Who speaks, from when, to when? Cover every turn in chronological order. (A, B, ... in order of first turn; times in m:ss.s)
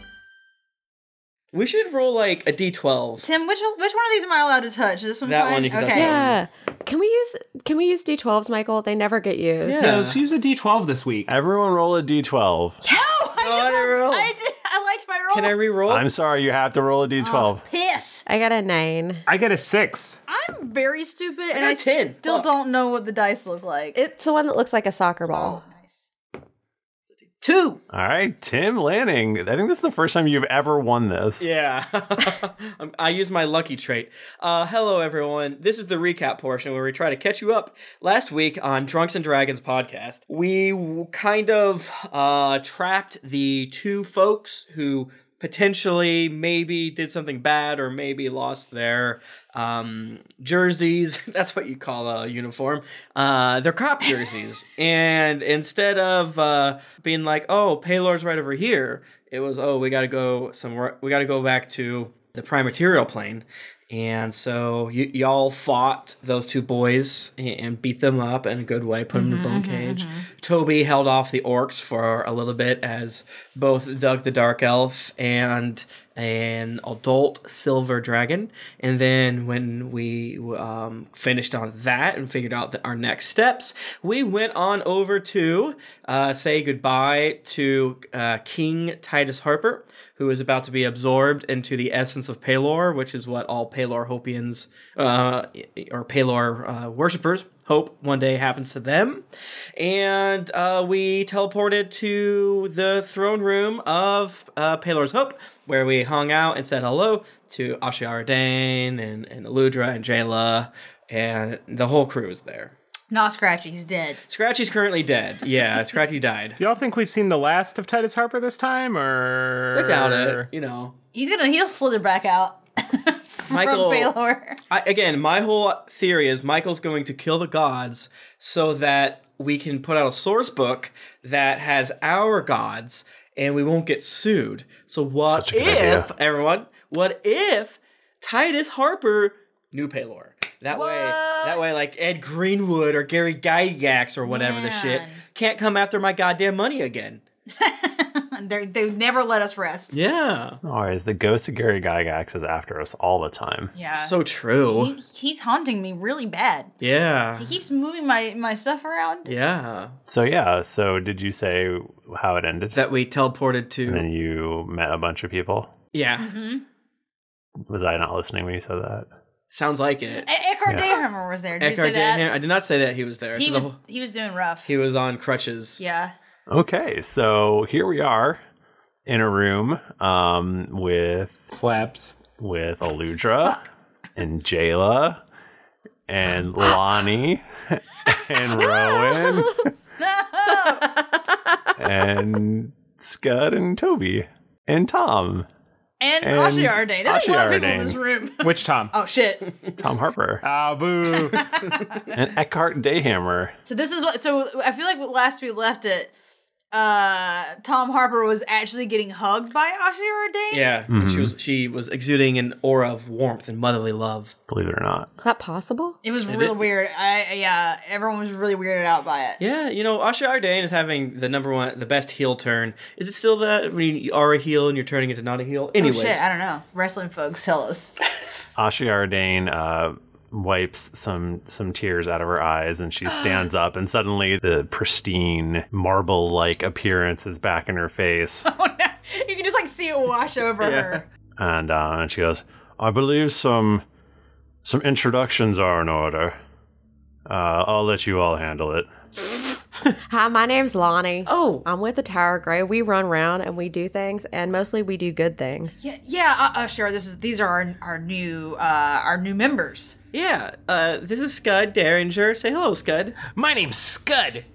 0:01.5-0:03.3 A
0:03.2-0:06.2 B
0:05.2-0:06.4 A
0:05.9-0:09.9 C
0:09.6-0:10.2 A
0:09.8-0:11.3 D
0:11.3-0:12.8 E
0:12.8-0:15.6 B
0:13.3-0:14.3 A
0:15.3-0:16.1 A
0:15.9-0:17.6 E
0:17.2-0:18.2 B
0:18.2-0:19.2 C
0:19.3-0:20.2 D
0:20.3-0:24.0 B
0:21.5-0:22.5 A
0:23.9-0:25.6 C
0:25.3-0:26.0 B
0:27.4-0:27.8 B
0:27.9-0:31.5 E
0:31.4-1:39.2 A
1:09.1-1:10.2 B
1:39.8-1:52.7 A
1:53.1-1:54.2 B
1:54.3-1:56.6 A
1:56.6-2:00.5 D
1:59.7-2:01.0 A
2:01.1-2:04.6 B
2:03.5-2:04.1 A
2:04.7-2:27.2 A
2:15.3-2:16.1 E
2:20.7-2:21.6 B
2:24.2-2:25.2 B
2:27.5-2:29.9 B
2:29.9-2:30.6 A
2:30.6-2:33.7 E
2:33.8-2:36.7 B
2:34.0-2:35.0 A
2:36.8-2:37.6 A
2:37.4-2:39.3 B
2:39.2-2:40.0 A
2:40.1-2:42.8 E
2:42.7-2:44.0 A
2:43.9-2:45.7 E
2:45.9-2:46.3 A
2:46.2-2:46.6 B
2:47.7-2:49.1 E
2:49.5-2:50.2 A
2:50.2-2:52.2 B
2:50.7-2:50.9 E
2:51.6-2:53.8 A
2:53.4-2:54.7 B
2:54.6-2:55.8 A
2:55.8-2:56.1 B
2:56.5-2:58.4 E
2:59.1-3:01.5 E
3:01.5-3:02.2 D
3:02.4-3:03.6 E
3:04.2-3:05.2 E
3:06.1-3:09.7 E
3:10.0-3:11.0 B
3:11.8-3:15.5 E
3:16.0-3:19.5 B
3:16.2-3:18.0 E
3:18.4-3:18.9 D
3:19.8-3:20.4 E
3:20.4-3:21.5 D
3:21.2-3:21.8 B
3:22.1-3:23.6 E
3:23.6-3:26.1 B
3:26.7-3:30.8 B
3:30.5-3:34.3 A
3:30.9-3:31.3 E
3:34.5-3:35.1 E
3:35.2-3:36.0 C
3:36.0-3:39.4 B
3:36.3-3:36.6 A
3:39.4-3:46.2 A
3:45.8-3:47.9 B
3:48.6-3:58.5 E
3:58.4-4:01.0 B
4:00.6-4:01.0 A
4:01.4-4:03.8 E
4:04.6-4:06.4 E
4:07.2-4:08.9 E
4:10.1-4:15.8 C
4:11.2-4:11.6 A
4:15.8-4:20.0 B
4:20.1-4:23.2 A
4:23.3-4:24.4 D